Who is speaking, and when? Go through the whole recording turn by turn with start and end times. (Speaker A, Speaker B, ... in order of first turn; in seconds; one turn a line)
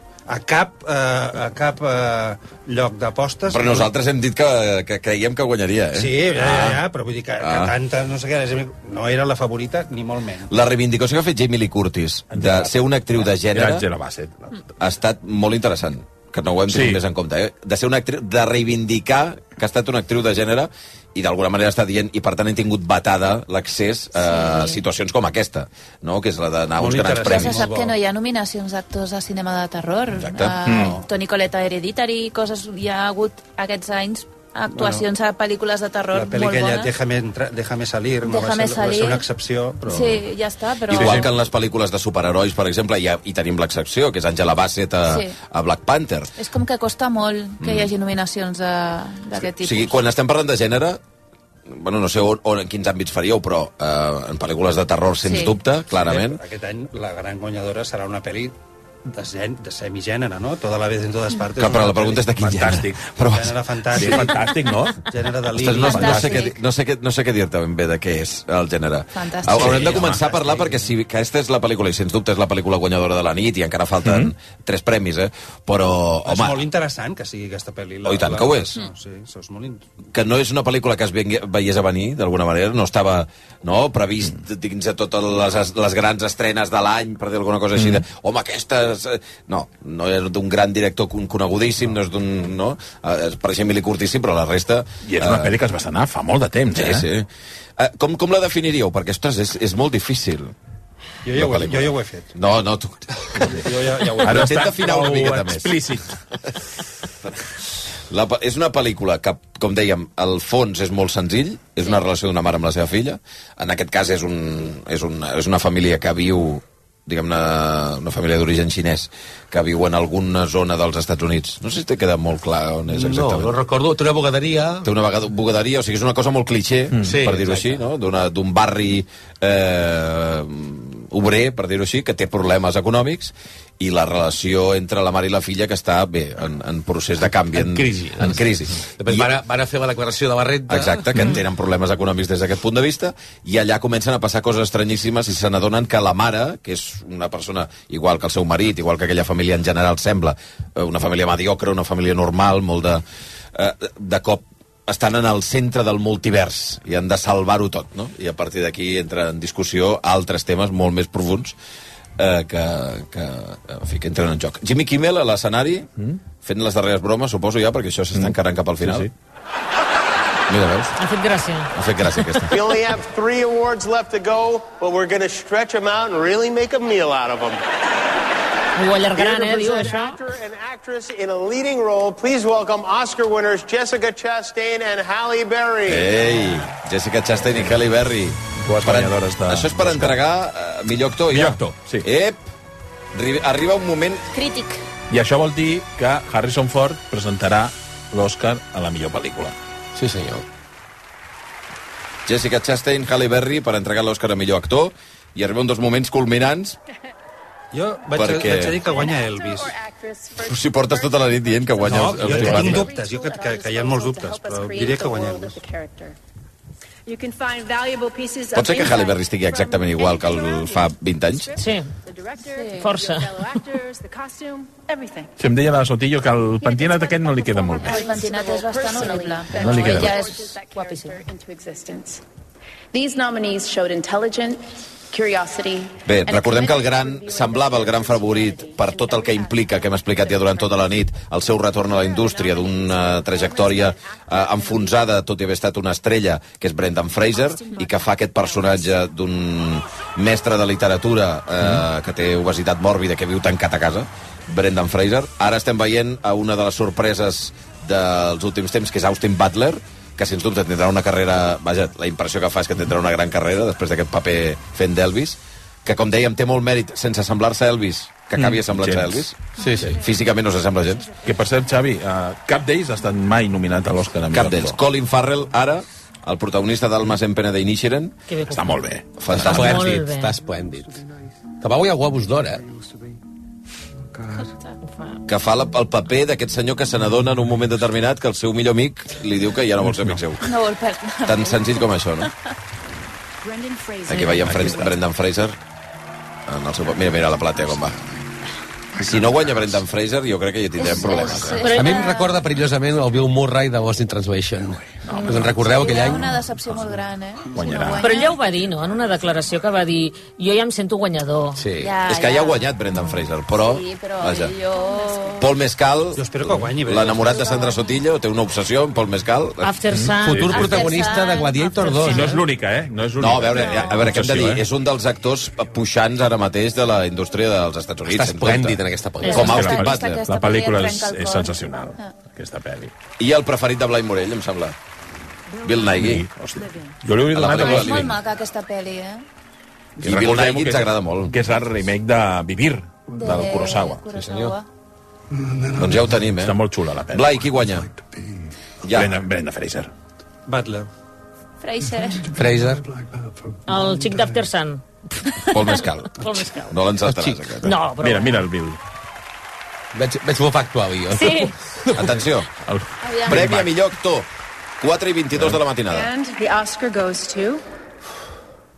Speaker A: 0.3-3.9
Speaker B: 3.5-6.8
Speaker A: 5.9-10.5
Speaker B: 7.4-7.7
Speaker B: 10.5-13.8
Speaker C: 12.3-14.6
Speaker B: 14.8-27.7
Speaker C: 16.7-17.0
Speaker D: 24.1-24.8
Speaker A: 26.8-27.9
Speaker D: 27.2-36.9
Speaker B: 30.2-30.6
Speaker C: 30.6-31.0
Speaker A: 34.7-35.1
Speaker A: 36.1-40.3
Speaker D: 38.2-39.3
Speaker D: 39.9-41.3
Speaker B: 40.9-46.3
Speaker C: 40.9-41.2
Speaker D: 45.1-45.3
Speaker D: 46.4-50.0
Speaker B: 47.6-47.9
Speaker B: 49.5-51.0
Speaker B: 51.7-56.4
Speaker D: 55.2-55.5
Speaker A: 55.9-58.5
Speaker A: 59.0-62.3
Speaker B: 61.6-63.5
Speaker C: 61.8-63.0
Speaker A: 63.2-66.3
Speaker C: 63.9-65.0
Speaker B: 65.6-76.6
Speaker D: 65.7-66.6
Speaker D: 69.1-69.9
Speaker C: 69.5-70.2
Speaker A: 70.0-70.8
Speaker C: 74.0-74.3
Speaker A: 76.2-79.8
Speaker B: 78.0-78.8
Speaker B: 80.1-95.5
Speaker C: 87.8-88.0
Speaker C: 95.0-97.1
Speaker B: 96.7-100.5
Speaker A: 101.2-102.3
Speaker B: 101.3-103.6
Speaker A: 103.4-104.7
Speaker C: 104.2-106.1
Speaker B: 104.2-105.8
Speaker B: 108.1-123.5
Speaker E: 122.9-124.9
Speaker B: 124.8-139.3
Speaker E: 127.0-127.8
Speaker E: 137.4-138.5
Speaker E: 139.0-141.2
Speaker B: 140.7-153.0
Speaker B: 153.5-161.5
Speaker B: 162.2-165.9
Speaker B: 166.4-169.1
Speaker C: 168.1-169.1
Speaker B: 170.5-170.9
Speaker F: 171.0-172.4
Speaker B: 171.7-172.6
Speaker G: 172.5-177.6
Speaker F: 178.8-180.2
Speaker G: 179.1-186.1
Speaker B: 185.9-192.4
Speaker C: 188.6-190.2
Speaker C: 191.3-192.1
Speaker B: 193.1-194.2
Speaker D: 194.3-194.8
Speaker C: 195.1-199.5
Speaker E: 199.9-200.4
Speaker B: 202.3-206.8
Speaker A: 207.7-209.8
Speaker B: 208.1-208.8
Speaker H: 208.8-216.2
Speaker B: 210.4-212.9
Speaker A: 211.8-215.6
Speaker H: 217.1-225.3
Speaker B: 218.5-221.6
Speaker F: 221.6-221.9
Speaker F: 222.7-223.6
Speaker C: 225.4-228.1
Speaker H: 226.6-232.2
Speaker D: 227.8-230.6
Speaker C: 229.5-230.1
Speaker H: 232.9-245.1
Speaker B: 236.0-271.1
Speaker H: 247.1-249.1
Speaker C: 251.6-251.8
Speaker C: 268.4-269.2
Speaker E: 269.6-270.0
Speaker H: 270.0-271.2
Speaker C: 271.2-274.8
Speaker B: 274.3-278.1
Speaker F: 278.3-278.9
Speaker C: 278.5-279.4
Speaker B: 279.2-279.9
Speaker E: 279.4-281.0
Speaker F: 279.4-280.3
Speaker E: 281.6-282.6
Speaker F: 284.9-285.2
Speaker B: 285.2-290.5
Speaker C: 289.9-290.1
Speaker D: 290.4-291.9
Speaker B: 291.2-292.3
Speaker H: 293.4-294.9
Speaker B: 294.1-295.6
Speaker C: 294.4-294.9
Speaker B: 296.5-298.0
Speaker B: 299.0-301.6
Speaker D: 300.8-302.4
Speaker F: 301.6-302.1
Speaker E: 301.6-306.3
Speaker C: 305.1-305.6
Speaker D: 305.2-308.4
Speaker C: 307.5-308.1
Speaker F: 308.0-311.6
Speaker E: 311.6-311.9
Speaker D: 311.8-312.8
Speaker B: 312.1-314.5
Speaker D: 313.5-315.5
Speaker B: 315.4-319.8
Speaker A: 316.1-317.6
Speaker D: 317.2-318.0
Speaker F: 319.6-321.0
Speaker C: 319.9-320.8
Speaker E: 320.2-322.4
Speaker D: 320.5-322.4
Speaker C: 322.0-324.6
Speaker B: 323.2-330.2
Speaker D: 323.5-324.0
Speaker E: 328.1-329.7
Speaker D: 329.2-332.1
Speaker C: 329.3-332.9
Speaker B: 333.2-334.7
Speaker B: 335.6-336.2
Speaker C: 335.9-338.2
Speaker B: 337.3-338.1
Speaker D: 337.4-339.2
Speaker C: 340.0-344.0
Speaker B: 340.0-341.3
Speaker D: 343.1-344.6
Speaker E: 344.1-344.5
Speaker B: 345.8-346.6
Speaker C: 346.4-347.4
Speaker B: 347.1-347.9
Speaker B: 348.8-349.1
Speaker C: 348.9-349.9
Speaker A: 350.5-350.9
Speaker D: 351.6-352.3
Speaker E: 352.3-352.9
Speaker F: 353.7-356.8
Speaker B: 355.5-357.7
Speaker E: 357.1-357.5
Speaker F: 357.6-358.4
Speaker C: 358.0-358.8
Speaker E: 359.9-362.1
Speaker F: 361.1-361.5
Speaker B: 361.9-362.5
Speaker C: 362.7-363.7
Speaker D: 363.0-363.5
Speaker B: 363.2-364.3
Speaker B: 364.8-366.1
Speaker H: 365.9-367.6